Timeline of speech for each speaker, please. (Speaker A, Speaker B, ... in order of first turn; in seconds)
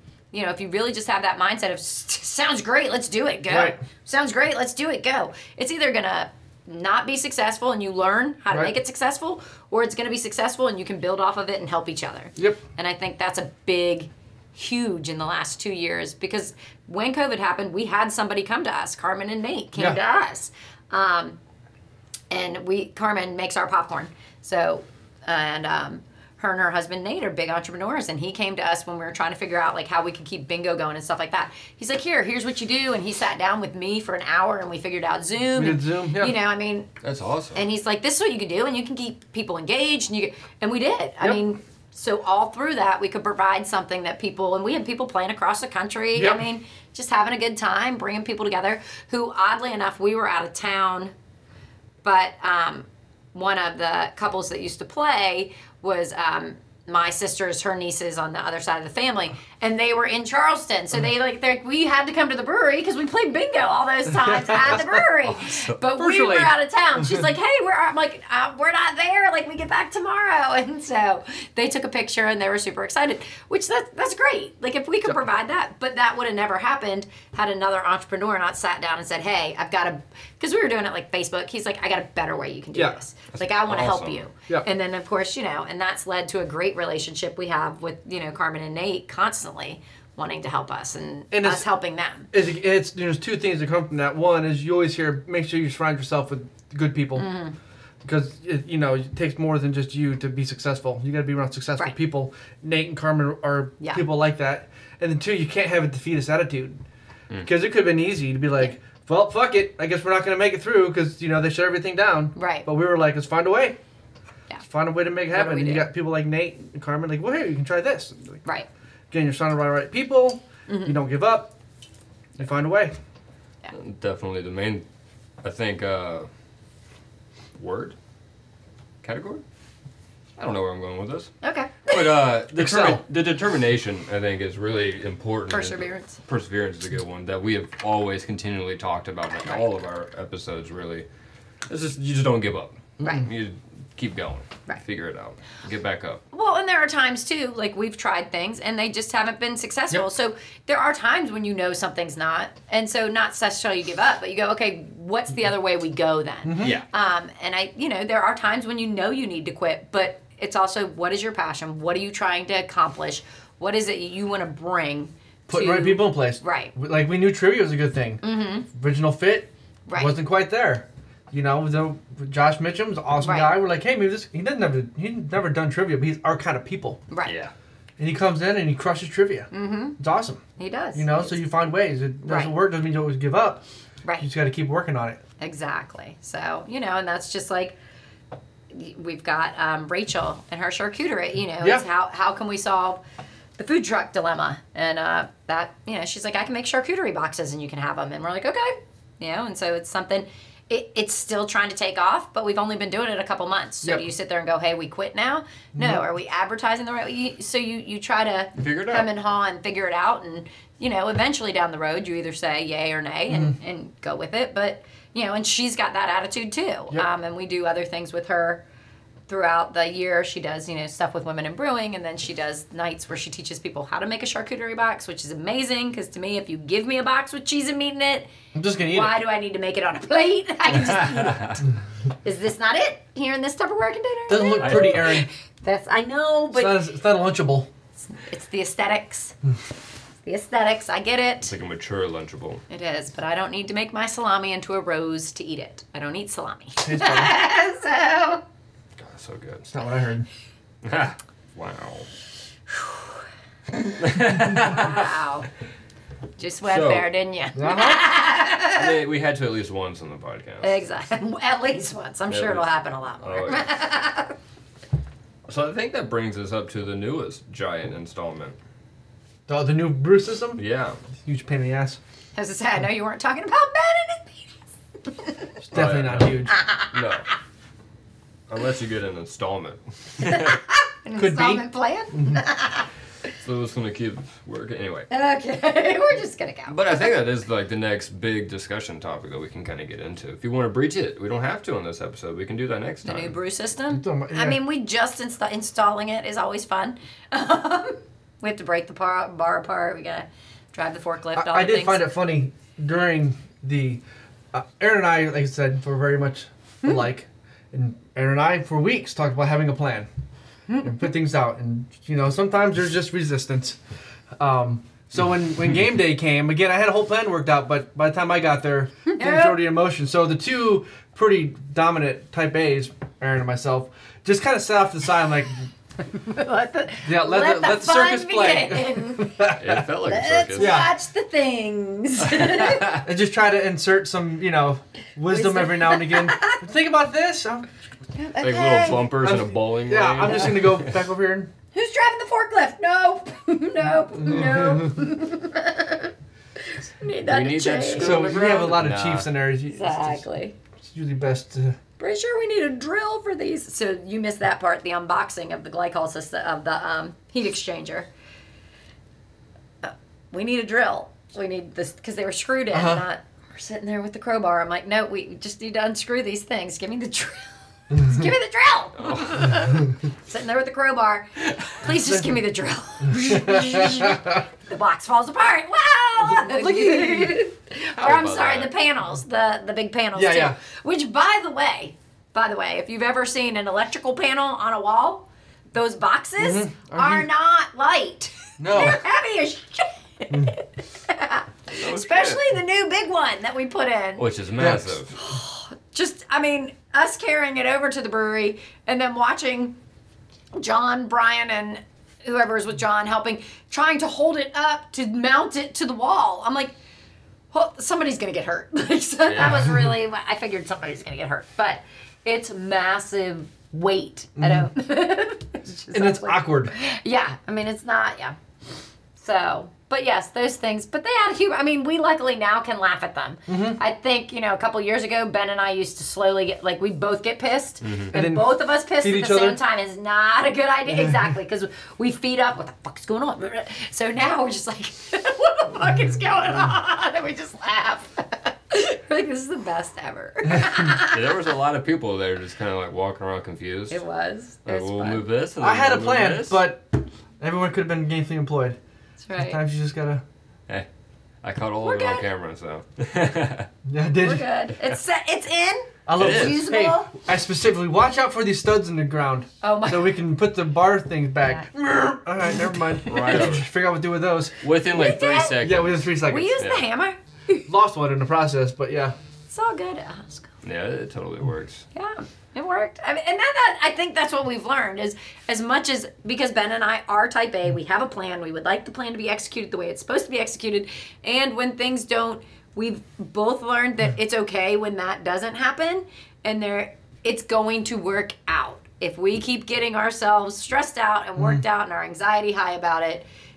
Speaker A: 0.3-21.4, 22.3-36.9, 37.5-51.1, 52.0-92.3, 97.2-97.5, 112.4-112.7, 115.3-115.9, 120.7-121.0, 131.4-132.1, 135.5-136.2, 143.0-143.3, 146.3-166.7, 168.2-168.7, 169.9-170.2, 173.2-173.5, 179.5-180.0, 180.6-181.4, 182.2-182.5, 185.4-187.8, 188.7-193.0, 193.6-218.6, 219.3-228.3, 228.8-231.6, 232.2-236.8, 238.1-239.3, 240.2-241.5, 242.7-248.4, 254.5-255.5, 256.4-258.9, 260.6-264.4, 272.4-274.5, 275.1-275.5, 276.5-276.9, 280.2-282.9, 285.1-287.1, 293.0-302.0, 319.1-319.6, 326.1-329.4, 330.0-333.0, 335.2-336.6, 338.1-339.1, 341.7-348.7, 349.7-350.5, 352.0-358.1, 359.8-394.3, 395.1-399.8, 400.5-406.8, 407.5-418.4, 419.2-441.4, 443.9-445.2, 449.2-449.6, 451.8-452.3, 454.2-457.1, 459.6-460.2, 464.9-465.6, 466.2-467.6, 469.5-470.5, 471.9-493.2
Speaker B: 3.5-3.8, 35.5-36.4, 46.1-46.4, 64.2-65.0, 66.0-66.5, 91.3-91.7, 92.3-97.3, 98.0-106.8, 107.4-113.8, 114.6-118.4, 119.1-121.5, 122.4-122.9, 132.6-133.0, 156.4-156.8, 165.5-177.0, 178.0-180.4, 180.9-183.6, 184.2-185.2, 205.8-206.0, 228.5-229.2, 234.3-235.3, 236.5-237.7, 246.8-247.3, 249.6-250.3, 257.5-258.1, 269.5-270.6, 271.2-272.0, 275.6-276.6, 281.2-282.4, 293.9-294.6, 301.4-304.0, 304.5-310.1, 310.8-313.8, 314.4-325.7, 327.0-329.9, 330.6-330.9, 332.7-337.7, 339.0-341.5, 344.1-345.0, 348.0-350.2, 350.8-351.8, 362.7-363.0, 373.2-374.2, 376.2-377.4, 380.1-380.6, 386.4-387.3, 388.6-389.0, 390.3-390.6, 394.6-395.0, 409.4-409.8, 414.4-414.7, 415.9-416.7, 423.5-423.8, 428.1-429.6, 430.9-431.2, 445.6-448.8, 449.4-450.2, 453.9-454.5, 456.1-464.6, 465.6-466.5, 467.7-469.1
Speaker C: 37.0-37.6, 65.2-65.8, 83.3-84.2, 123.7-124.8, 125.4-126.3, 127.6-128.0, 129.0-129.4, 130.4-131.3, 131.9-141.1, 141.7-146.2, 156.6-156.9, 177.2-177.5, 208.6-209.1, 230.8-231.6, 234.6-235.2, 241.4-242.6, 249.0-249.7, 250.8-252.1, 254.0-255.1, 256.7-257.1, 258.7-260.7, 262.3-262.7, 263.2-263.7, 265.5-268.6, 270.6-271.0, 275.7-277.3, 278.5-280.6, 283.4-285.1, 286.7-293.4, 329.6-330.9, 332.2-333.0, 338.4-341.0, 347.2-349.3, 369.0-369.6, 378.0-378.7, 391.7-392.4, 394.2-395.1, 409.3-409.8, 427.8-428.1, 440.6-444.0, 444.6-446.6, 451.4-453.7, 456.2-456.6, 463.1-463.7, 464.6-466.9, 470.6-471.9